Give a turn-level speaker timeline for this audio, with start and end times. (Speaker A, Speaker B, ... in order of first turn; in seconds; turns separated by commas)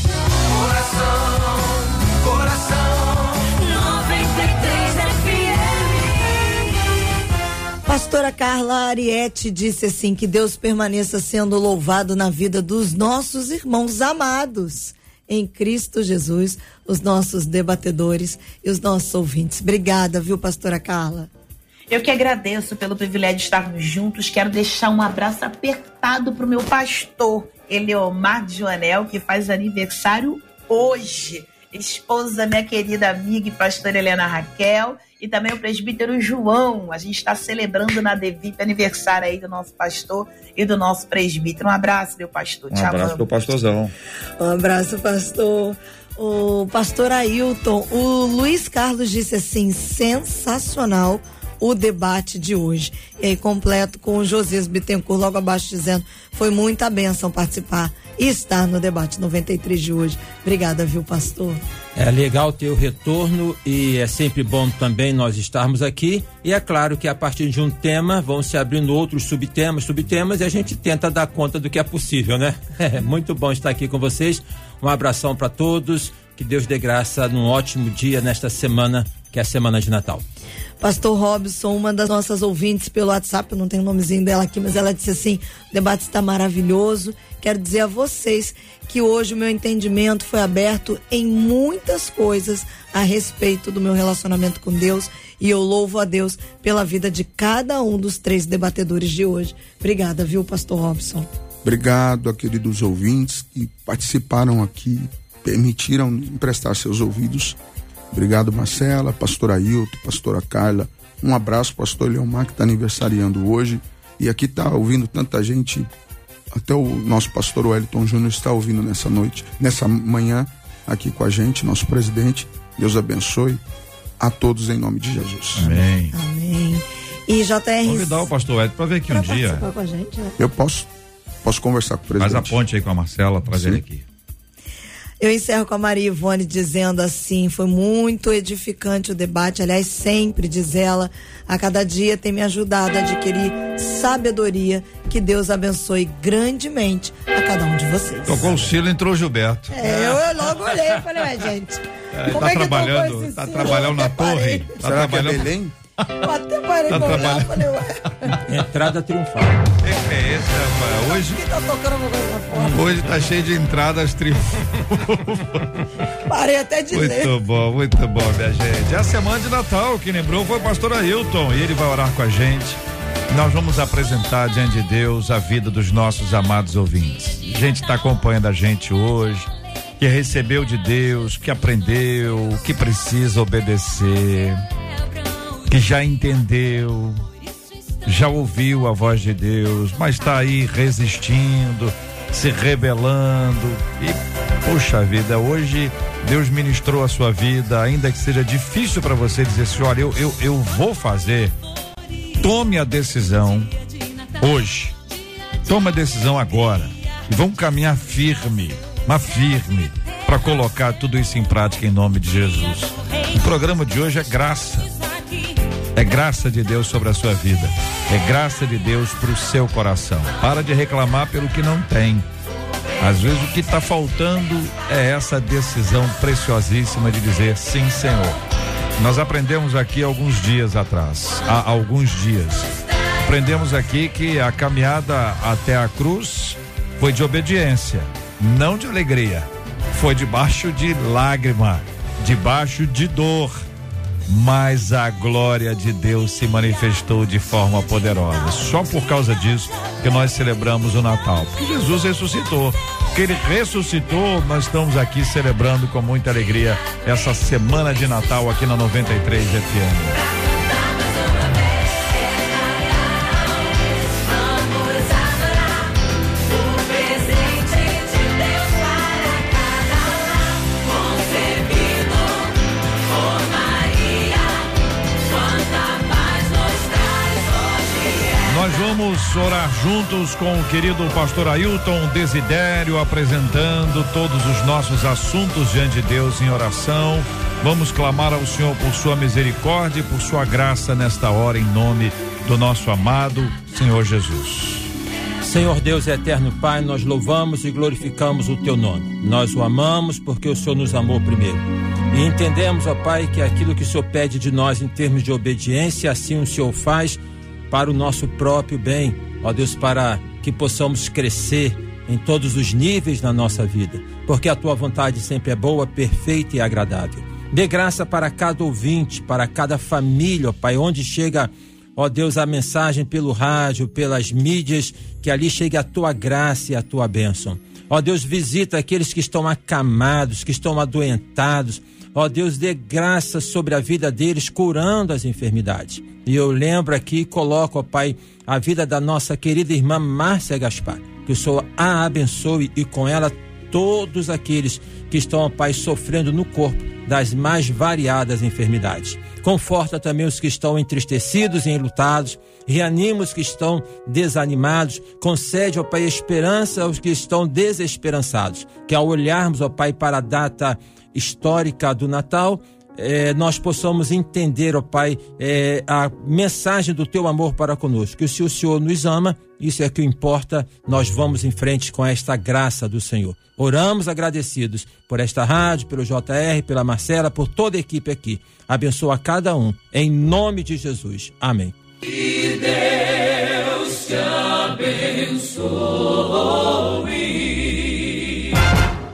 Speaker A: 0.5-6.6, Speaker B: 7.8-21.3, Speaker C: 21.9-43.6, Speaker D: 42.7-43.9, Speaker B: 44.4-61.6, Speaker E: 62.0-80.2, Speaker B: 80.8-101.3, Speaker F: 101.6-107.6, Speaker F: 108.1-115.9, Speaker F: 116.5-123.6, Speaker F: 124.2-125.8, Speaker D: 125.5-126.1, Speaker B: 126.1-128.3, Speaker D: 127.8-129.7, Speaker B: 129.1-130.3, Speaker F: 130.4-130.9, Speaker F: 131.4-132.6, Speaker D: 132.2-134.0, Speaker F: 133.5-133.8, Speaker B: 135.2-148.7, Speaker D: 148.2-150.2, Speaker B: 149.7-154.8, Speaker D: 152.1-156.3, Speaker F: 154.8-155.7, Speaker B: 156.2-158.3, Speaker D: 156.9-158.4, Speaker E: 158.4-159.7, Speaker D: 159.8-161.4, Speaker B: 161.0-162.9, Speaker D: 162.7-165.7, Speaker B: 166.3-167.3, Speaker D: 166.9-179.5, Speaker D: 180.0-184.6, Speaker D: 185.7-187.2, Speaker D: 188.0-201.5, Speaker D: 202.4-203.7, Speaker D: 204.4-204.9, Speaker D: 205.6-214.9, Speaker D: 215.9-222.2, Speaker D: 223.0-228.4, Speaker D: 229.0-243.6, Speaker D: 244.3-260.2, Speaker A: 260.1-278.9, Speaker D: 278.4-294.9, Speaker E: 295.4-381.7, Speaker A: 382.4-386.8